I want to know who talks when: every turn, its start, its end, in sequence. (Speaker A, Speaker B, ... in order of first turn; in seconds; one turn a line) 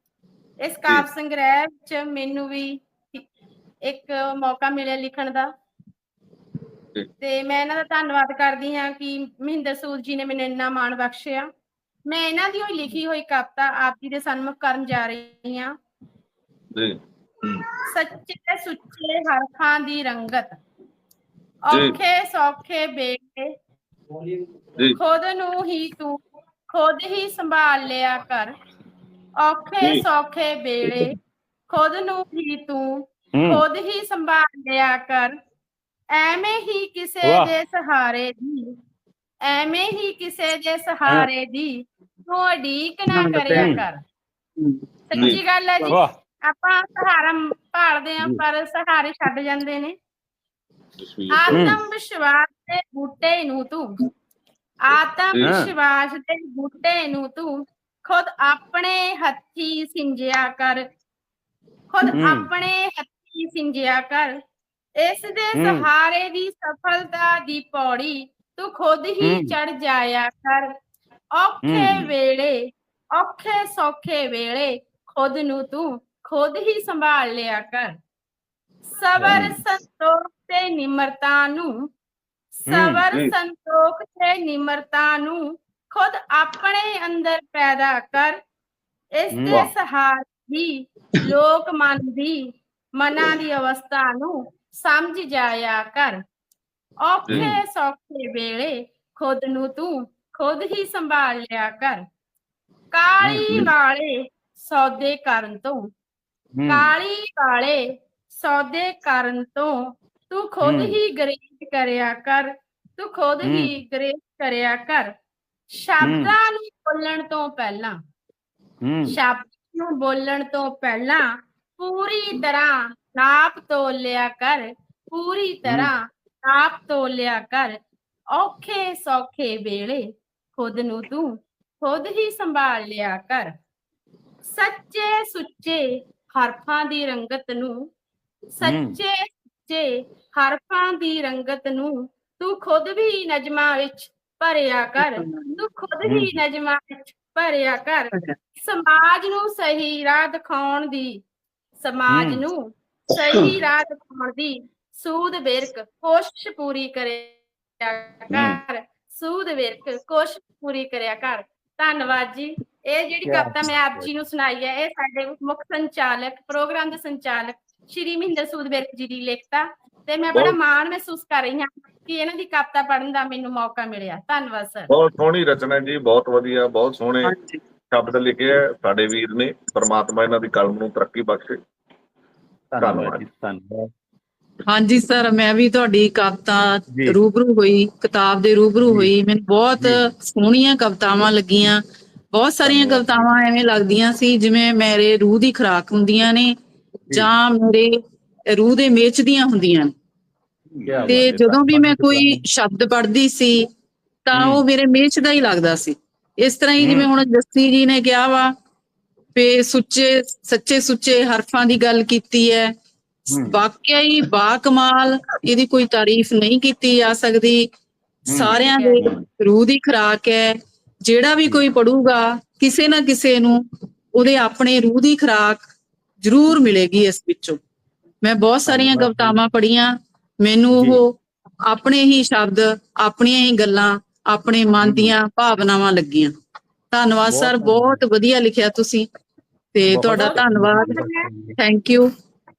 Speaker A: 0.6-3.2
Speaker A: 3.8-5.5
Speaker A: 7.2-11.4
Speaker A: 12.1-15.7
Speaker B: 16.7-17.6
Speaker A: 17.9-20.5
Speaker A: 21.6-23.5
Speaker B: 21.7-22.0
Speaker A: 24.9-26.1
Speaker A: 26.7-28.5
Speaker A: 29.4-31.1
Speaker A: 31.7-32.9
Speaker C: 33.3-33.6
Speaker A: 33.4-35.3
Speaker A: 36.1-38.6
Speaker C: 37.2-37.5
Speaker A: 39.4-41.7
Speaker A: 42.2-44.0
Speaker D: 43.1-43.8
Speaker C: 43.5-43.8
Speaker A: 45.1-49.9
Speaker C: 45.1-46.1
Speaker B: 51.0-51.7
Speaker A: 51.3-53.9
Speaker C: 51.5-51.8
Speaker A: 54.8-57.5
Speaker C: 55.4-55.7
Speaker A: 58.0-60.8
Speaker A: 61.9-64.3
Speaker C: 62.1-62.5
Speaker A: 65.0-70.7
Speaker C: 65.5-65.9
Speaker C: 69.2-69.5
Speaker A: 71.3-72.5
Speaker C: 71.6-72.1
Speaker A: 73.1-77.9
Speaker A: 78.9-81.7
Speaker C: 79.2-79.6
Speaker A: 82.6-85.4
Speaker C: 82.7-83.0
Speaker A: 85.9-88.3
Speaker A: 89.2-92.3
Speaker C: 89.3-89.7
Speaker A: 93.0-96.2
Speaker A: 97.0-102.0
Speaker C: 97.3-97.6
Speaker A: 102.9-105.9
Speaker C: 103.2-103.7
Speaker C: 106.5-106.9
Speaker A: 106.7-107.8
Speaker A: 108.3-109.7
Speaker A: 110.3-115.1
Speaker C: 110.6-111.0
Speaker C: 113.4-113.7
Speaker A: 115.7-117.9
Speaker C: 116.0-116.3
Speaker C: 118.8-119.1
Speaker A: 119.1-121.2
Speaker A: 121.8-127.8
Speaker C: 125.6-125.9
Speaker A: 128.3-130.0
Speaker A: 130.5-131.3
Speaker A: 131.8-133.5
Speaker A: 134.4-137.7
Speaker A: 138.6-151.2
Speaker C: 138.6-139.0
Speaker D: 145.0-145.6
Speaker C: 146.0-146.4
Speaker A: 151.8-174.9
Speaker C: 152.1-152.4
Speaker B: 158.3-158.6
Speaker C: 163.2-164.1
Speaker B: 174.9-177.3
Speaker D: 177.2-177.6
Speaker B: 177.9-181.6
Speaker C: 182.7-183.9
Speaker B: 182.8-183.2
Speaker D: 184.7-191.8
Speaker C: 186.9-187.2
Speaker C: 188.8-189.1
Speaker C: 189.8-190.1
Speaker D: 192.3-196.5
Speaker C: 192.6-193.4
Speaker D: 197.1-197.9
Speaker D: 198.5-199.9
Speaker C: 200.8-202.4
Speaker D: 201.0-203.6
Speaker D: 204.2-208.5
Speaker C: 204.3-204.6
Speaker C: 206.8-207.1
Speaker D: 209.3-212.7
Speaker C: 213.3-213.6
Speaker D: 213.3-217.6
Speaker C: 218.3-219.2
Speaker D: 218.3-220.5
Speaker A: 218.5-219.1
Speaker D: 221.0-223.6
Speaker D: 224.2-225.7
Speaker D: 226.2-227.6
Speaker D: 228.2-229.9
Speaker C: 228.7-229.4
Speaker D: 230.4-231.1
Speaker C: 230.8-231.0
Speaker D: 231.7-236.3
Speaker C: 234.8-235.2
Speaker D: 236.9-239.0
Speaker C: 237.2-238.0
Speaker D: 239.7-242.1
Speaker C: 239.9-241.6
Speaker A: 240.2-241.1